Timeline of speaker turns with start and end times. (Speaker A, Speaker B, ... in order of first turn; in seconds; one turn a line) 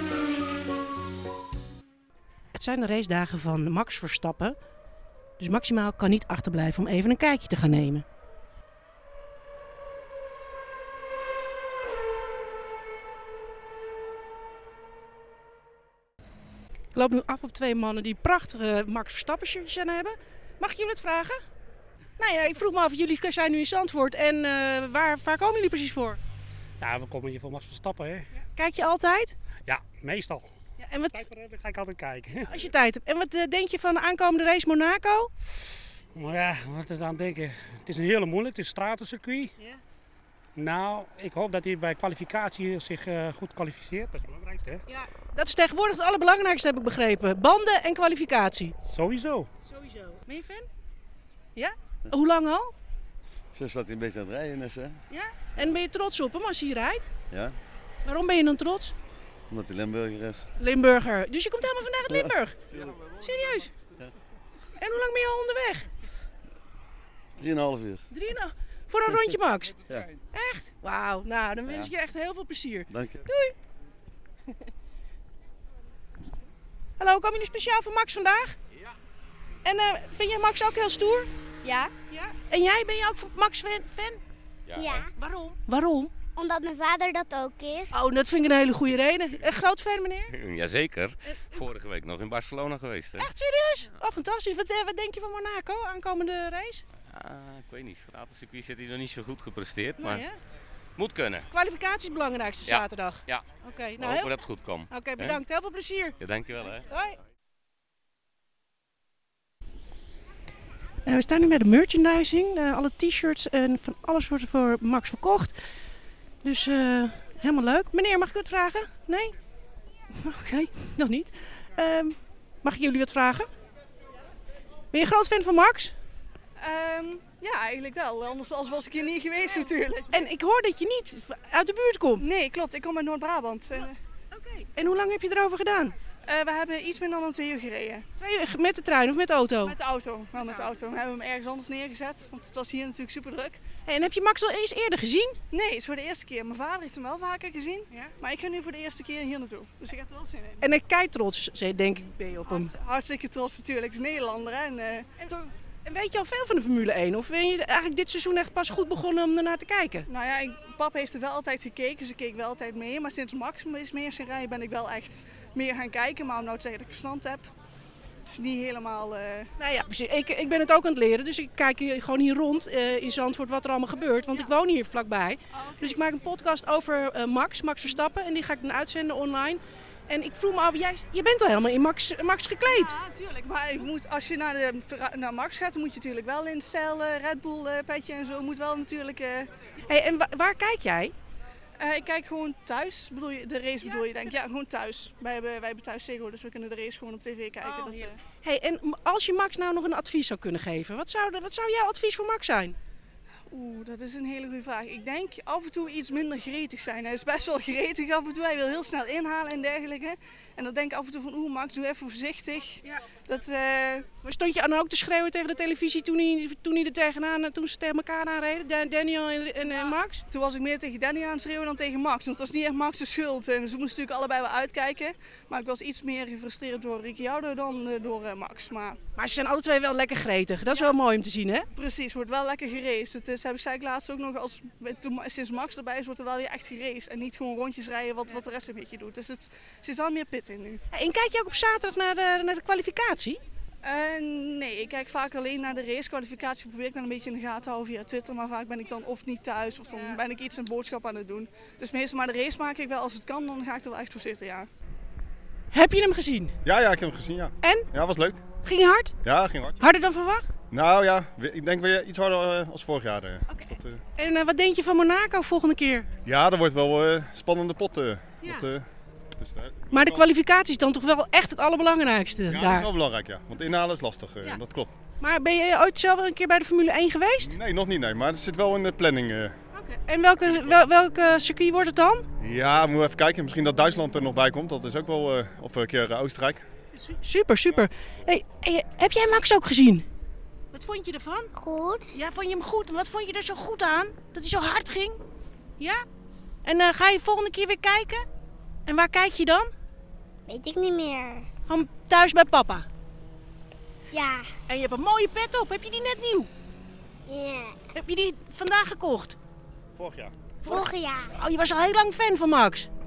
Speaker A: 2.5-4.6
Speaker A: 5.4-8.0
Speaker A: 16.9-21.4
Speaker A: 22.2-26.2
Speaker B: 26.8-28.3
Speaker A: 28.4-29.4
Speaker B: 29.6-30.5
Speaker A: 30.8-31.2
Speaker B: 31.1-32.5
Speaker A: 32.5-35.3
Speaker B: 36.1-39.5
Speaker B: 40.5-44.8
Speaker A: 44.9-48.7
Speaker B: 48.9-49.5
Speaker A: 49.7-50.7
Speaker A: 51.5-52.7
Speaker C: 53.5-55.0
Speaker A: 55.1-57.1
Speaker C: 57.3-57.5
Speaker A: 58.0-58.9
Speaker C: 59.5-60.5
Speaker A: 60.6-62.6
Speaker C: 62.1-63.0
Speaker A: 63.1-63.7
Speaker A: 64.8-65.9
Speaker C: 67.4-68.0
Speaker A: 68.1-69.8
Speaker A: 70.3-73.5
Speaker C: 71.7-71.9
Speaker C: 72.9-73.2
Speaker A: 77.0-78.6
Speaker A: 79.6-81.3
Speaker D: 81.6-81.9
Speaker A: 82.1-84.2
Speaker E: 84.7-85.0
Speaker D: 84.8-85.1
Speaker A: 85.2-86.1
Speaker D: 86.3-88.0
Speaker A: 87.9-90.3
Speaker E: 90.3-93.3
Speaker A: 91.3-91.7
Speaker A: 93.2-96.8
Speaker E: 97.1-100.2
Speaker A: 100.0-100.4
Speaker E: 101.0-101.5
Speaker A: 101.5-104.3
Speaker E: 102.7-103.5
Speaker E: 104.0-105.4
Speaker A: 104.9-107.2
Speaker E: 106.2-106.8
Speaker A: 111.0-115.6
Speaker A: 116.4-119.3
Speaker A: 120.1-123.5
Speaker A: 124.9-125.9
Speaker F: 126.6-130.3
Speaker A: 130.1-132.2
Speaker F: 132.2-134.0
Speaker A: 134.3-135.9
Speaker F: 136.2-138.1
Speaker A: 138.2-139.8
Speaker F: 139.6-143.6
Speaker A: 140.4-140.7
Speaker A: 143.8-145.4
Speaker F: 145.5-150.6
Speaker A: 150.6-152.7
Speaker F: 152.4-155.5
Speaker A: 155.8-160.1
Speaker F: 160.1-167.5
Speaker F: 168.2-169.5
Speaker A: 169.6-182.9
Speaker F: 175.5-176.0
Speaker F: 182.6-189.5
Speaker A: 189.8-191.1
Speaker F: 191.8-198.2
Speaker A: 197.6-202.8
Speaker F: 203.5-214.1
Speaker A: 214.2-220.2
Speaker F: 220.3-229.0
Speaker A: 229.2-231.7
Speaker F: 231.7-240.8
Speaker A: 240.9-243.4
Speaker F: 243.8-254.7
Speaker A: 255.7-256.5
Speaker G: 256.6-258.4
Speaker A: 257.6-257.9
Speaker A: 258.6-259.1
Speaker G: 259.2-259.8
Speaker A: 259.8-260.5
Speaker G: 260.7-264.0
Speaker A: 263.5-266.1
Speaker G: 266.2-268.9
Speaker A: 268.4-268.7
Speaker G: 269.4-270.2
Speaker A: 269.9-272.9
Speaker G: 272.5-274.9
Speaker A: 275.2-277.6
Speaker G: 277.4-279.5
Speaker A: 279.7-282.2
Speaker G: 282.4-286.6
Speaker A: 286.9-290.0
Speaker A: 290.7-291.5
Speaker D: 291.5-292.2
Speaker A: 292.1-295.2
Speaker A: 295.8-296.0
Speaker A: 296.6-298.2
Speaker A: 298.9-299.7
Speaker D: 300.5-301.5
Speaker A: 301.7-302.9
Speaker D: 304.1-304.5
Speaker A: 304.7-306.5
Speaker D: 307.3-307.8
Speaker A: 307.9-309.4
Speaker G: 310.0-310.3
Speaker D: 310.6-311.4
Speaker A: 310.6-312.9